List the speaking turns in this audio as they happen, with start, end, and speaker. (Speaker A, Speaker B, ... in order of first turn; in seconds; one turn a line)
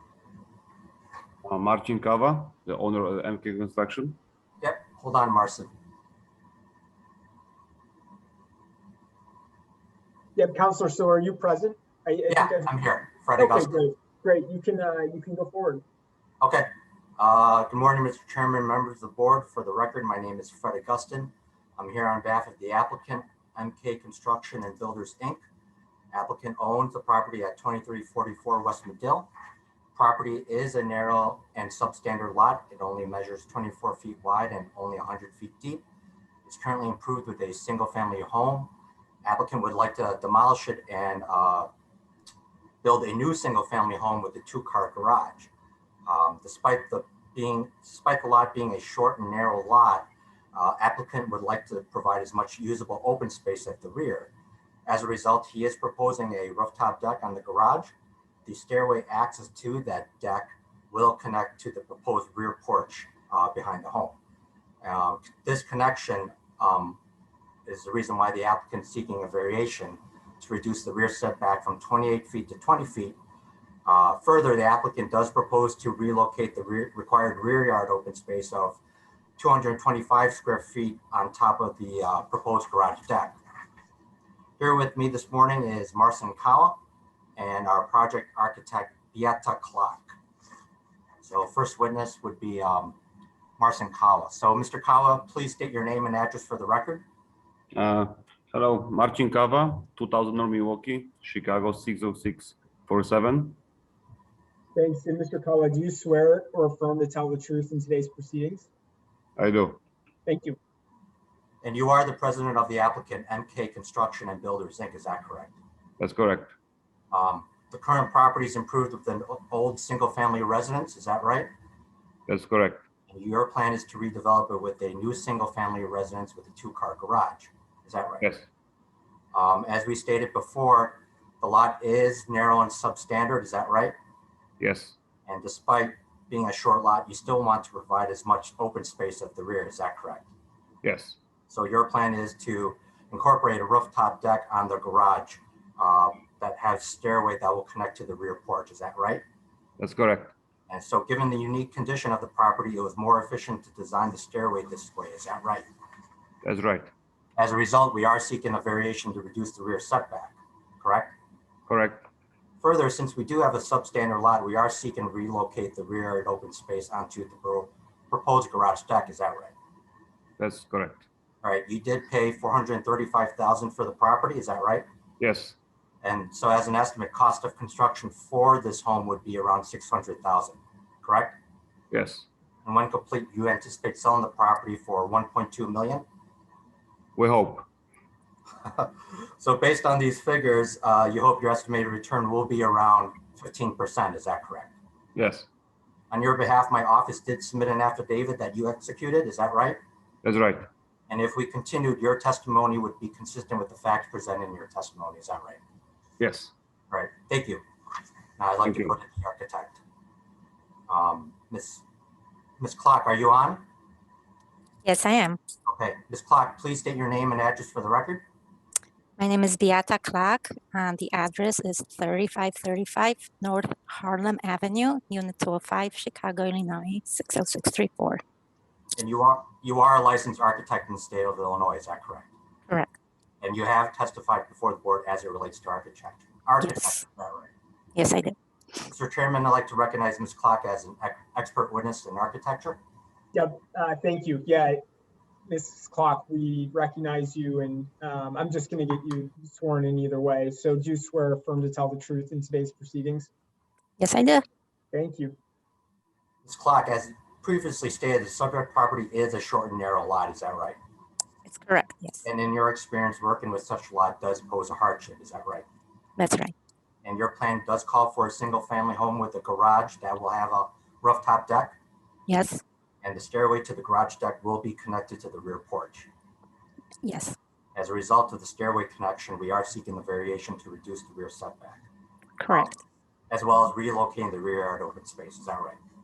Speaker A: 1.4-4.2
Speaker B: 4.6-5.7
Speaker C: 10.4-12.7
Speaker B: 12.3-13.8
Speaker C: 13.4-15.8
Speaker B: 16.4-25.4
Speaker B: 26.1-29.3
Speaker B: 29.9-35.8
Speaker B: 36.5-38.7
Speaker B: 39.2-41.7
Speaker B: 42.8-45.5
Speaker B: 46.1-54.3
Speaker B: 54.9-57.9
Speaker B: 58.5-64.2
Speaker B: 64.8-67.0
Speaker B: 67.7-73.2
Speaker B: 73.9-78.8
Speaker B: 79.4-83.4
Speaker B: 84.6-86.8
Speaker B: 87.4-90.2
Speaker B: 91.2-93.0
Speaker B: 93.6-97.0
Speaker A: 97.8-103.6
Speaker C: 104.8-108.7
Speaker A: 109.4-109.8
Speaker C: 110.3-110.6
Speaker B: 111.6-115.6
Speaker A: 116.0-116.5
Speaker B: 117.1-121.5
Speaker A: 122.3-122.8
Speaker B: 123.1-128.2
Speaker A: 128.2-128.5
Speaker B: 129.3-133.9
Speaker A: 134.6-135.0
Speaker B: 135.3-140.3
Speaker A: 140.8-141.2
Speaker B: 141.5-149.2
Speaker A: 149.8-150.3
Speaker B: 150.7-155.7
Speaker A: 156.4-156.9
Speaker B: 157.4-161.2
Speaker A: 161.7-162.0
Speaker B: 162.6-169.5
Speaker A: 170.4-171.1
Speaker B: 171.4-174.8
Speaker A: 175.2-175.6
Speaker B: 176.0-181.4
Speaker A: 181.9-182.3
Speaker B: 182.7-186.0
Speaker A: 187.2-187.7
Speaker B: 188.6-194.7
Speaker A: 195.2-195.5
Speaker B: 196.1-199.8
Speaker A: 200.2-200.7
Speaker B: 201.1-205.6
Speaker A: 206.2-206.5
Speaker B: 206.9-207.6
Speaker B: 208.4-209.8
Speaker A: 208.7-208.9
Speaker B: 210.9-211.8
Speaker B: 212.6-213.6
Speaker D: 214.8-215.4
Speaker B: 215.7-218.2
Speaker D: 219.2-228.2
Speaker B: 229.0-232.3
Speaker B: 233.4-237.5
Speaker D: 236.6-237.0
Speaker D: 238.0-238.4
Speaker B: 238.8-242.8
Speaker C: 243.3-244.8
Speaker C: 245.5-253.3
Speaker D: 254.0-254.4
Speaker C: 254.9-255.3
Speaker B: 256.4-260.8
Speaker D: 261.5-262.3
Speaker B: 262.2-265.6
Speaker D: 266.2-266.5
Speaker B: 267.0-271.8
Speaker D: 272.3-272.6
Speaker B: 273.0-276.1
Speaker D: 277.0-277.4
Speaker B: 277.8-281.8
Speaker D: 282.4-282.7
Speaker B: 282.5-282.8
Speaker B: 283.3-285.8